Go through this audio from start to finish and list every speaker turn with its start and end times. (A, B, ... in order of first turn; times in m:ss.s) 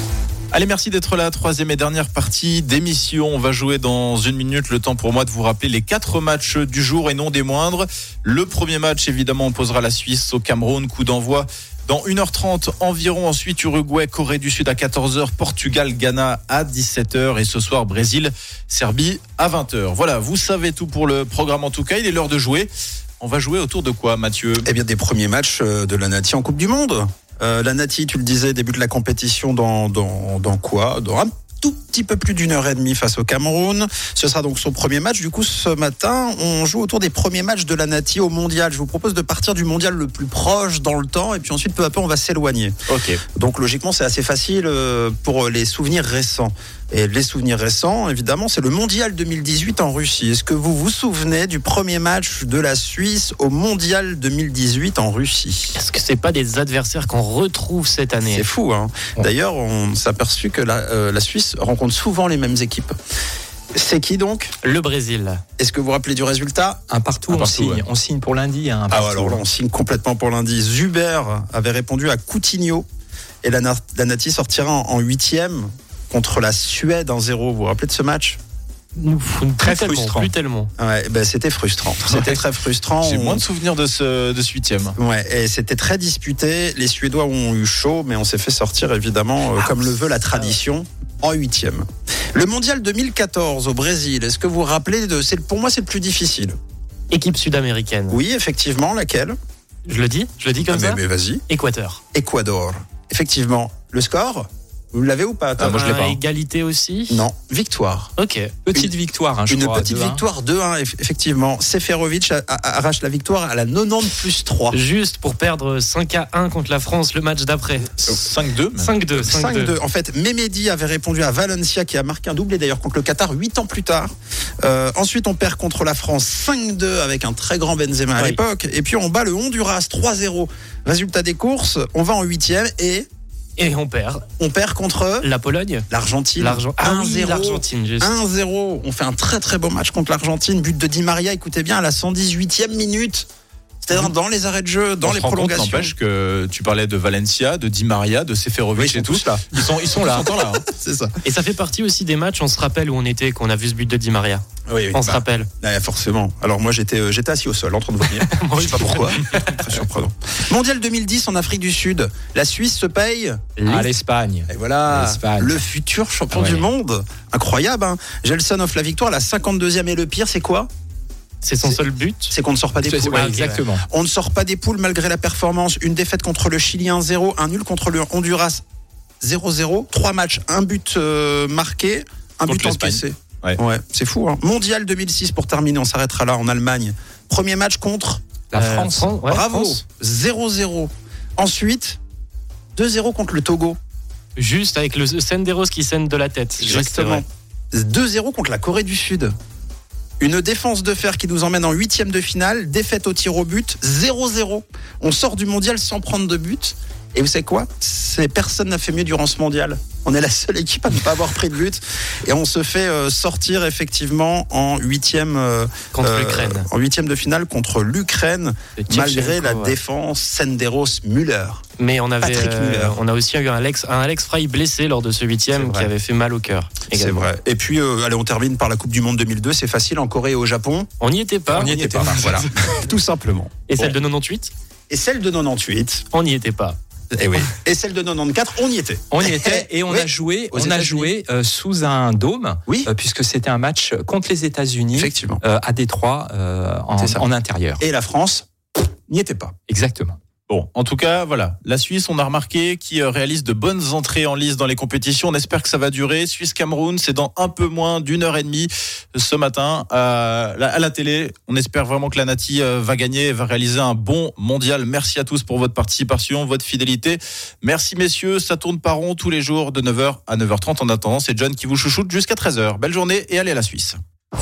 0:00.5-0:24.7 A
0:24.6-0:42.8 B
0:42.9-0:43.2 A
0:43.4-0:55.8 B
0:55.8-0:58.5 C
0:58.2-1:03.0 B
1:03.8-1:04.5 B
1:04.6-1:05.4 C
1:05.6-1:06.8 B
1:06.9-1:09.4 D
1:07.3-1:07.8 A
1:08.9-1:12.9 B
1:13.4-1:18.4 B
1:19.0-1:20.7 C
1:19.6-1:20.3 D
1:20.8-1:23.4 B
1:22.0-1:22.4 A
1:23.0-1:25.0 A
1:25.0-1:36.6 B
1:37.1-1:38.2 C
1:38.1-1:39.4 B
1:39.9-1:42.0 C
1:40.7-1:41.4 B
1:42.1-1:45.9 B
1:45.6-1:46.2 A
1:45.6-1:47.3 C
1:47.1-1:48.1 B
1:48.2-1:48.5 C
1:48.7-1:50.2 D
1:49.5-1:54.8 B
1:54.7-1:58.2 C
1:58.1-1:58.9 A
1:58.8-1:59.7 C
1:59.2-2:04.1 B
2:04.6-2:13.1 B
2:13.6-2:14.2 C
2:14.4-2:15.3 B
2:15.2-2:15.9 C
2:15.9-2:23.3 B
2:16.4-2:18.1 C
2:23.8-2:25.9 B
2:25.0-2:30.6 A
2:28.8-2:31.2 B
2:31.2-2:35.5 C
2:34.7-2:43.4 B
2:38.2-2:39.7 C
2:43.6-2:43.9 C
2:43.7-2:45.6 D
2:44.5-2:50.7 B
2:46.3-2:46.7 D
2:51.4-2:52.3 C
2:51.6-2:53.3 B
2:52.8-2:53.8 D
2:53.1-2:53.6 C
2:53.8-2:58.6 B
2:59.2-3:08.2 B
3:02.5-3:03.6 A
3:08.5-3:09.2 D
3:08.6-3:09.8 C
3:09.3-3:12.0 B
3:12.8-3:13.8 B
3:14.4-3:17.2 C
3:16.6-3:19.3 B
3:20.2-3:41.6 B
3:35.9-3:36.7 C
3:38.8-3:39.8 C
3:41.8-3:47.3 C
3:42.2-3:43.0 B
3:45.5-3:45.9 B
3:46.9-3:50.9 B
3:51.0-3:52.5 C
3:51.5-3:54.0 B
3:51.6-3:52.3 D
3:53.7-3:54.5 C
3:54.9-3:56.0 B
3:56.1-3:56.8 C
3:57.2-4:01.1 B
3:59.1-4:07.8 D
4:04.9-4:05.4 B
4:07.0-4:07.3 B
4:07.8-4:08.5 B
4:09.1-4:09.5 B
4:09.7-4:10.2 D
4:10.5-4:34.0 A